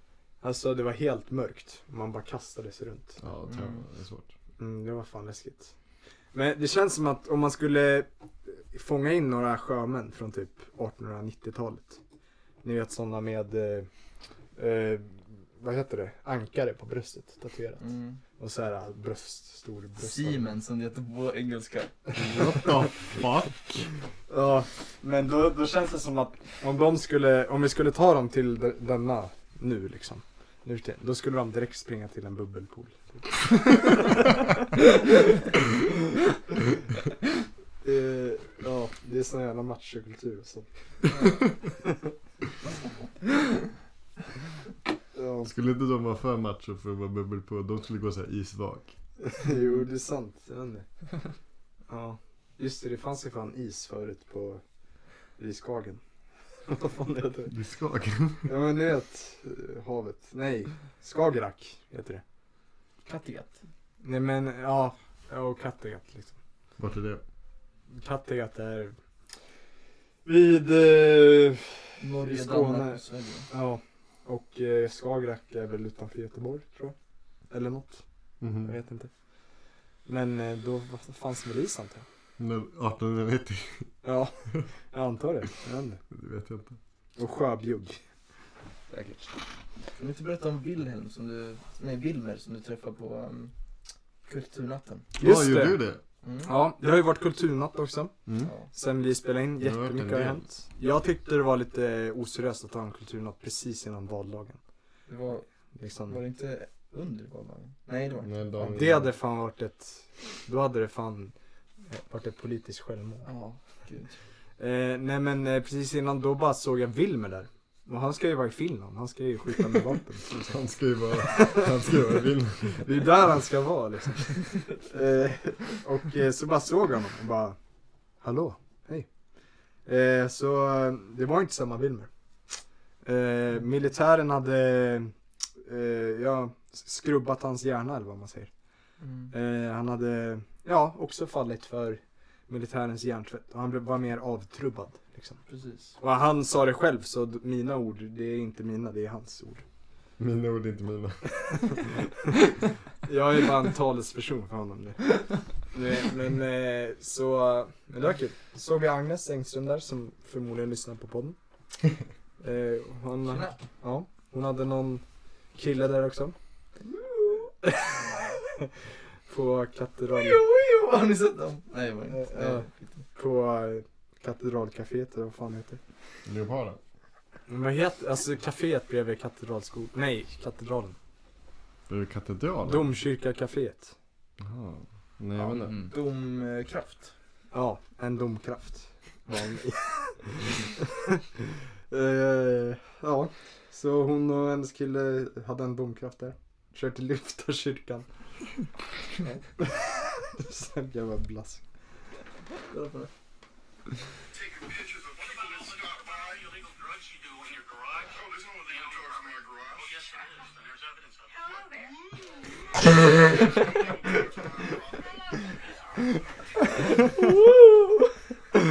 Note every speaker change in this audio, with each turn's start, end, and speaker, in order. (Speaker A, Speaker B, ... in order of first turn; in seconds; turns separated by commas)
Speaker A: 0.4-3.2, Speaker B: 3.2-4.3, Speaker C: 3.5-3.9, Speaker A: 4.6-5.7, Speaker A: 6.3-12.0, Speaker A: 12.6-13.9, Speaker A: 14.6-17.8, Speaker C: 17.8-18.2, Speaker A: 18.4-20.5, Speaker C: 20.0-21.9, Speaker B: 22.1-23.9, Speaker A: 24.3-34.5, Speaker A: 37.8-41.1, Speaker A: 41.6-42.1, Speaker A: 45.1-45.5, Speaker B: 45.4-48.9, Speaker A: 49.2-50.9, Speaker A: 51.9-54.6, Speaker A: 55.4-56.0, Speaker A: 56.6-57.5, Speaker B: 57.5-58.5, Speaker A: 58.5-62.2, Speaker C: 63.0-63.6, Speaker A: 64.0-66.3, Speaker B: 66.8-67.2, Speaker A: 67.9-69.0, Speaker A: 70.2-77.0, Speaker C: 72.0-73.5, Speaker A: 77.5-78.0, Speaker B: 78.4-78.7, Speaker A: 78.6-79.1, Speaker A: 80.1-82.0, Speaker B: 82.4-83.9, Speaker A: 84.0-86.0, Speaker B: 86.1-86.8, Speaker A: 87.2-88.0, Speaker C: 90.0-93.5, Speaker C: 94.3-95.1, Speaker A: 95.2-95.8, Speaker B: 95.2-96.0, Speaker C: 96.2-96.5, Speaker A: 96.5-98.1, Speaker B: 98.3-98.5, Speaker C: 98.4-98.7, Speaker A: 98.7-104.6, Speaker B: 99.6-100.4, Speaker C: 105.1-105.5, Speaker A: 105.8-106.2, Speaker C: 106.1-108.3, Speaker B: 108.2-109.1, Speaker A: 108.6-111.3, Speaker A: 111.9-113.3, Speaker C: 113.2-114.2, Speaker A: 114.6-120.6, Speaker B: 120.3-122.9, Speaker A: 121.2-121.9, Speaker A: 122.8-127.6, Speaker A: 128.2-129.1, Speaker A: 129.9-132.1, Speaker A: 133.0-135.1, Speaker A: 135.6-138.5, Speaker C: 139.0-139.3, Speaker A: 139.3-145.4, Speaker C: 145.5-146.0, Speaker A: 146.0-149.6, Speaker B: 150.2-151.3, Speaker A: 151.8-152.3, Speaker A: 153.1-161.4, Speaker A: 162.4-166.4, Speaker C: 163.2-163.6, Speaker C: 166.9-168.4, Speaker A: 167.6-168.7, Speaker A: 169.3-170.4, Speaker C: 170.1-173.0, Speaker A: 172.1-175.8, Speaker B: 176.2-176.8, Speaker A: 177.5-181.0, Speaker B: 181.9-182.9, Speaker A: 182.6-183.9, Speaker B: 184.4-185.8, Speaker C: 185.4-187.1, Speaker A: 187.5-191.2, Speaker A: 191.9-198.1, Speaker A: 199.2-201.6, Speaker C: 202.7-203.1, Speaker C: 217.0-218.1